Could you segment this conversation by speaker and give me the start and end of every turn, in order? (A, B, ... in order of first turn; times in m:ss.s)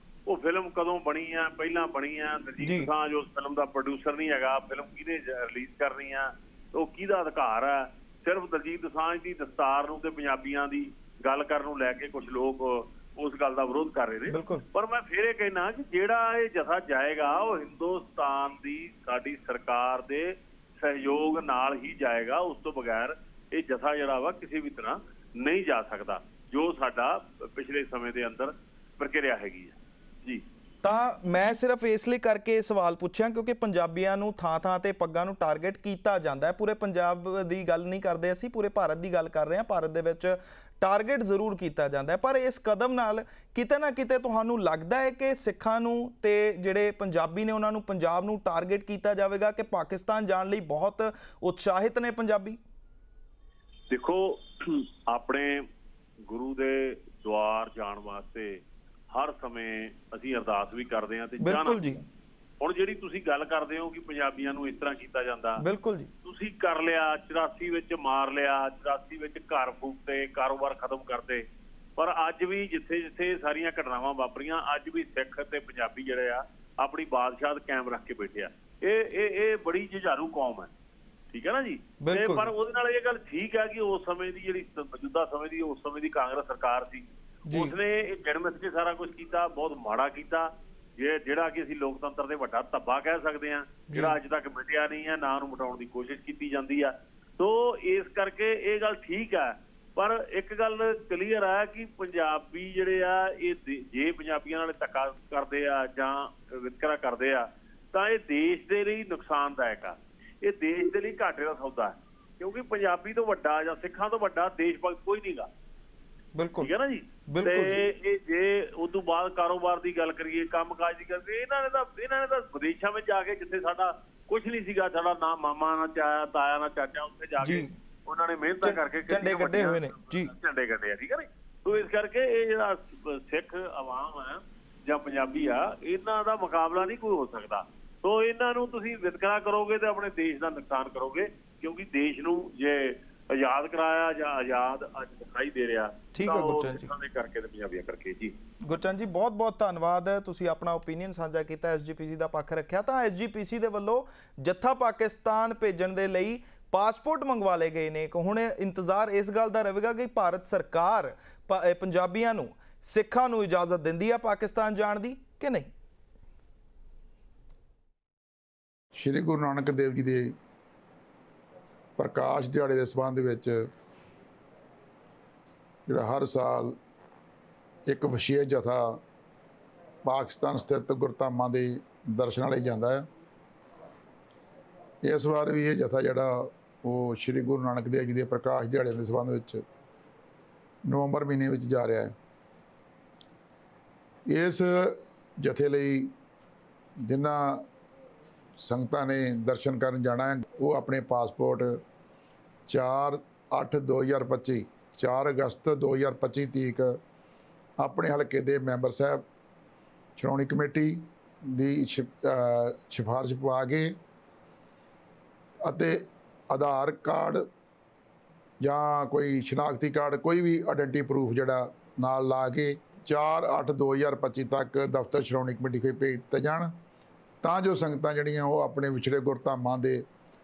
0:00.3-0:30.4 A
0:02.6-0:02.9 B
0:14.3-0:14.7 B
0:30.8-0:52.6 B
0:53.9-0:55.7 A
0:56.3-1:01.9 A
1:01.4-1:02.0 B
1:02.6-1:05.6 A
1:05.6-1:06.1 B
1:06.2-1:11.5 A
1:12.0-1:20.7 A
1:21.3-1:55.5 A
1:22.0-1:22.5 B
1:27.5-1:27.7 B
1:33.9-1:34.2 B
1:56.4-1:56.7 B
1:56.6-2:28.4 A
1:57.3-1:57.8 B
2:07.4-2:07.7 B
2:08.6-2:10.3 B
2:26.2-2:26.9 B
2:28.6-2:45.7 B
2:49.0-2:50.4 C
2:52.0-2:53.7 C
2:55.9-2:56.8 C
2:57.9-2:59.0 C
3:00.0-3:03.1 C
3:05.0-3:09.6 C
3:10.9-3:12.1 C
3:14.3-3:16.1 C
3:17.1-3:17.7 C
3:18.6-3:21.8 C
3:22.7-3:27.0 C
3:27.8-3:29.2 C
3:30.2-3:34.0 C
3:35.6-3:37.5 C
3:38.6-3:46.7 C
3:47.4-3:50.1 C